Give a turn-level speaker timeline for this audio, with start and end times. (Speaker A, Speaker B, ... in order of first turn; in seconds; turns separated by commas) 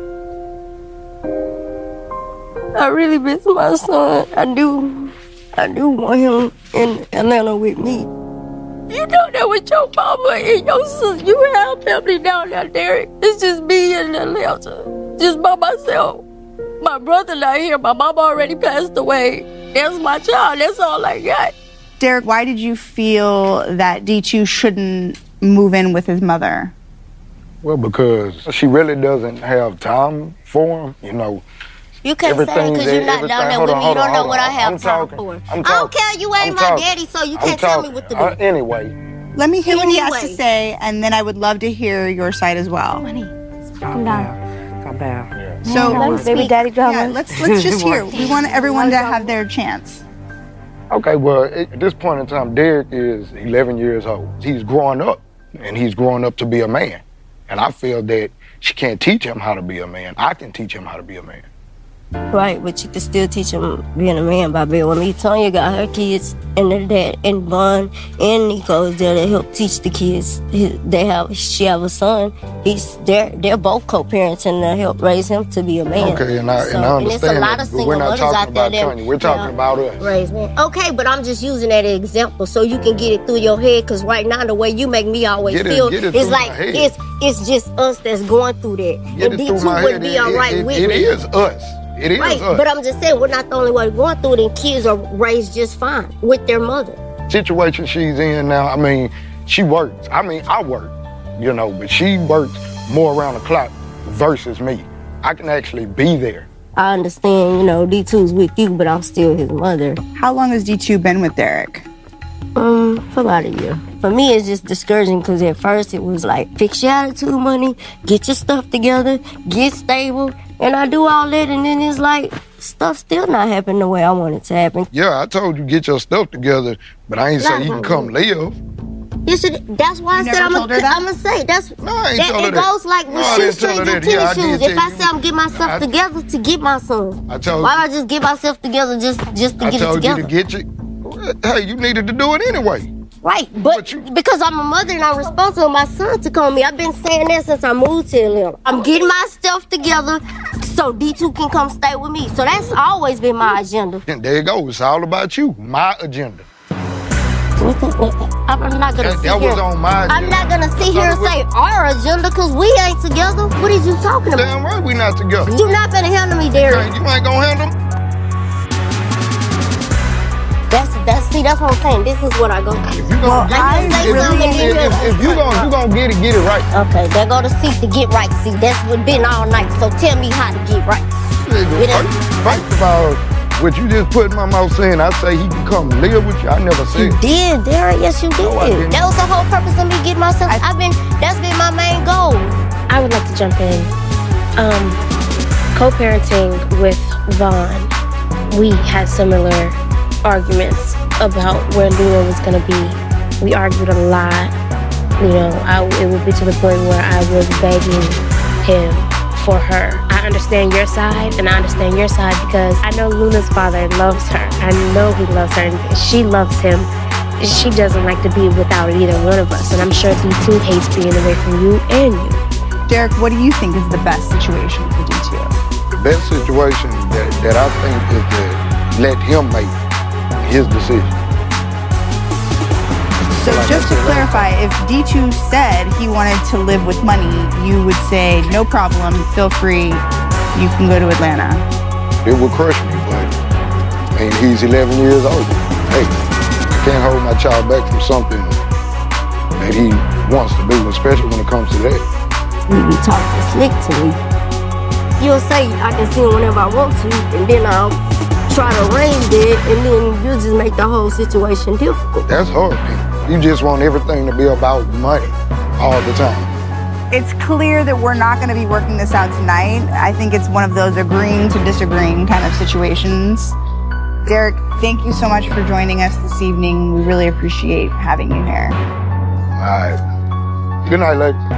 Speaker A: 2.8-8.1, Speaker A: 8.9-16.2, Speaker A: 16.8-21.5, Speaker B: 22.0-26.7, Speaker C: 27.6-31.4, Speaker A: 32.0-38.4, Speaker C: 32.2-39.0, Speaker B: 39.3-43.0, Speaker A: 39.6-40.4, Speaker D: 43.0-49.3, Speaker B: 45.7-50.0, Speaker A: 45.8-46.7, Speaker C: 50.9-61.5, Speaker A: 62.3-91.1, Speaker C: 76.0-80.1, Speaker C: 85.4-86.9, Speaker C: 89.1-92.6, Speaker A: 92.2-97.0, Speaker C: 97.3-106.5, Speaker A: 106.8-110.0, Speaker B: 110.2-111.8, Speaker A: 112.5-124.9, Speaker C: 124.9-128.6, Speaker A: 127.4-128.1, Speaker A: 129.2-140.3, Speaker B: 130.1-131.1, Speaker C: 131.8-135.9, Speaker C: 137.3-137.8, Speaker C: 139.6-142.9, Speaker A: 143.2-154.0, Speaker C: 143.6-144.1, Speaker C: 154.1-156.4, Speaker A: 157.6-164.5, Speaker C: 159.0-161.3, Speaker C: 164.3-165.5, Speaker A: 165.5-166.9, Speaker C: 166.5-167.7, Speaker A: 170.7-175.7, Speaker C: 172.9-176.7, Speaker B: 173.2-175.1, Speaker A: 176.7-181.1, Speaker C: 181.4-187.2, Speaker A: 181.7-182.6, Speaker A: 186.9-192.6, Speaker C: 188.4-189.1, Speaker B: 190.4-190.7, Speaker E: 192.9-193.9, Speaker E: 194.6-195.0, Speaker E: 195.7-197.9, Speaker E: 198.5-204.5, Speaker E: 205.2-222.4, Speaker B: 222.9-225.6, Speaker C: 225.9-229.8, Speaker C: 230.4-231.2, Speaker B: 233.3-241.6, Speaker C: 233.4-234.5, Speaker C: 242.2-243.3, Speaker C: 244.1-246.2, Speaker C: 246.7-248.6, Speaker C: 249.6-252.0, Speaker A: 252.7-254.2, Speaker A: 255.2-262.3, Speaker C: 262.3-266.5, Speaker B: 267.1-273.5, Speaker B: 274.2-278.8, Speaker C: 279.6-280.0, Speaker C: 280.8-281.4